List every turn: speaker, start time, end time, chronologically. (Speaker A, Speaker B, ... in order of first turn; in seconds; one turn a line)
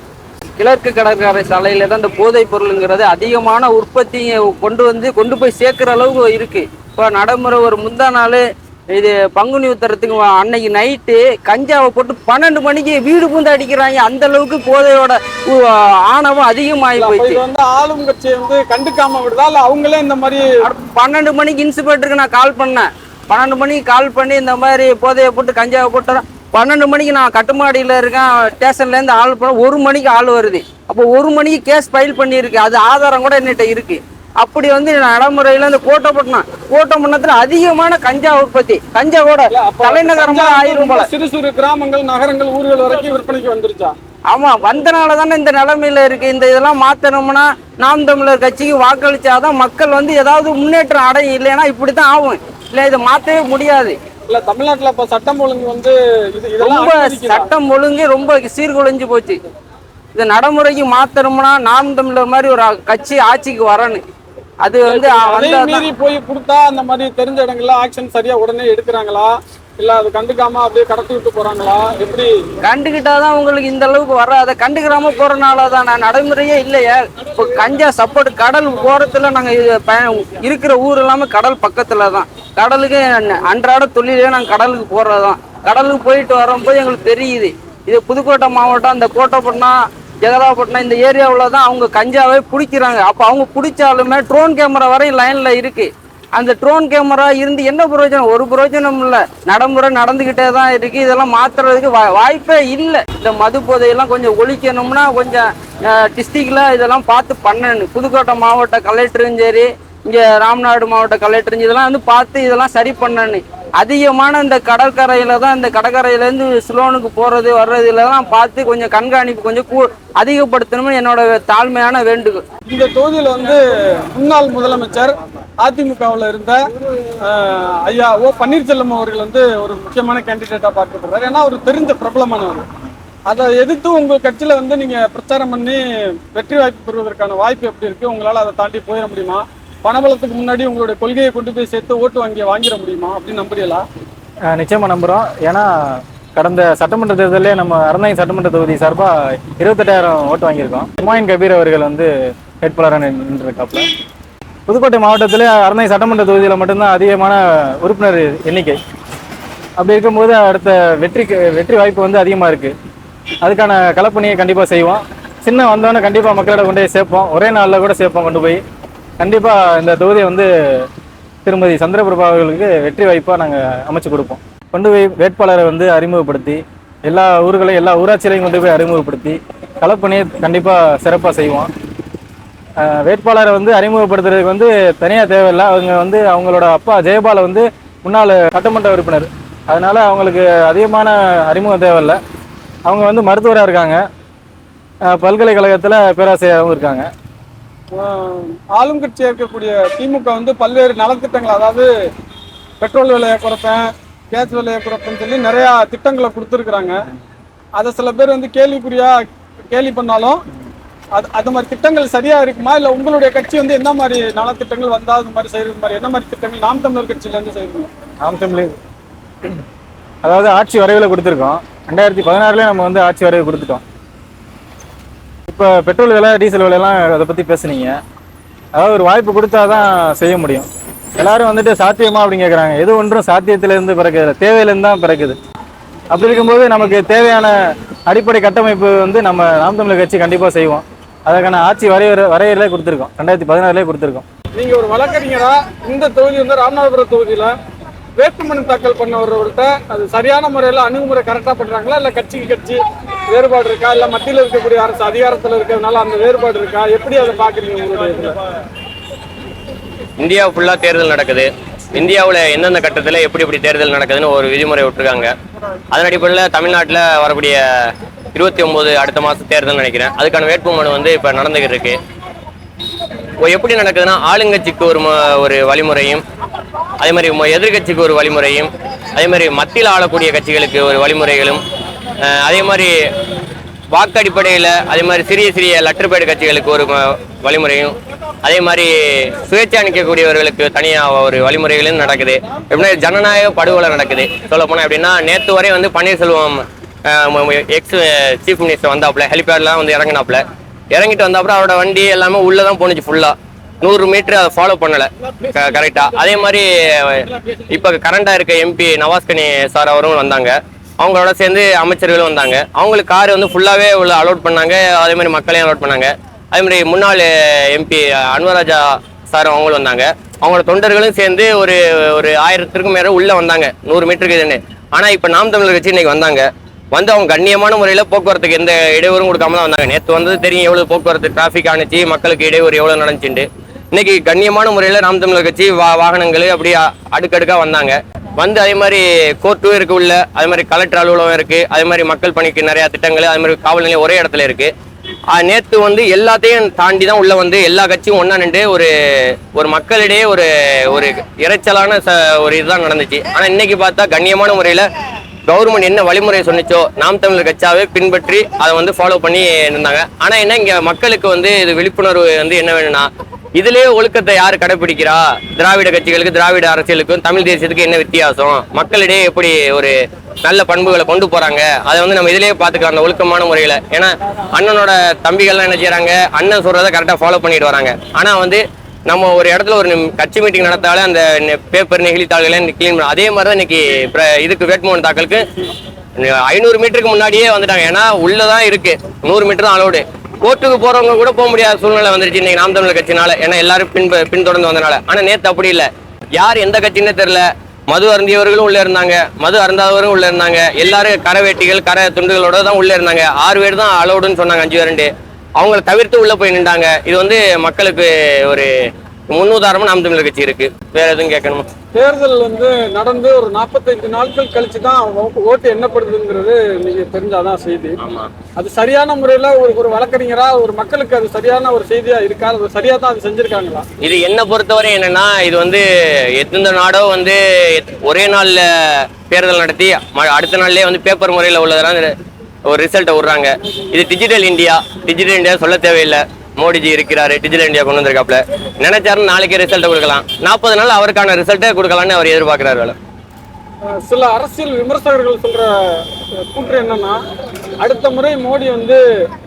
Speaker A: 0.6-17.4
Speaker B: 17.0-20.5
Speaker A: 20.6-41.1
Speaker B: 39.5-43.9
Speaker A: 44.3-53.9
Speaker B: 54.3-57.5
Speaker A: 56.6-59.4
Speaker A: 60.1-64.0
Speaker A: 64.6-65.9
Speaker B: 64.9-72.3
Speaker A: 72.6-122.4
Speaker B: 122.7-123.6
Speaker B: 124.1-126.6
Speaker B: 127.2-132.7
Speaker B: 133.3-143.8
Speaker C: 144.5-152.1
Speaker C: 152.6-153.8
Speaker C: 154.7-158.8
Speaker C: 159.8-162.7
Speaker C: 163.4-168.6
Speaker C: 169.2-170.9
Speaker C: 171.4-181.7
Speaker C: 182.8-192.2
Speaker C: 192.8-194.0
Speaker C: 195.1-197.1
Speaker B: 197.9-201.9
Speaker B: 202.8-207.0
Speaker B: 207.8-210.4
Speaker B: 211.2-217.9
Speaker C: 218.2-218.8
Speaker C: 220.2-223.8
Speaker C: 225.5-228.0
Speaker C: 228.8-230.7
Speaker C: 231.2-235.4
Speaker C: 236.1-237.5
Speaker C: 238.1-244.2
Speaker B: 244.6-247.5
Speaker B: 248.2-258.3
Speaker D: 260.2-265.3
Speaker D: 265.9-267.6
Speaker D: 268.3-272.0
Speaker D: 273.4-276.2
Speaker D: 277.0-281.6
Speaker D: 282.2-282.9
Speaker D: 283.9-344.7
Speaker D: 345.3-348.9
Speaker D: 349.5-354.9
Speaker D: 355.4-385.4
Speaker D: 386.2-408.7
Speaker D: 409.3-411.7
Speaker B: 411.9-418.0
Speaker D: 418.0-418.3
Speaker B: 418.6-423.8
Speaker D: 424.0-425.8
Speaker D: 426.4-432.1
Speaker D: 432.7-442.9
Speaker B: 443.9-447.2
Speaker B: 447.8-449.0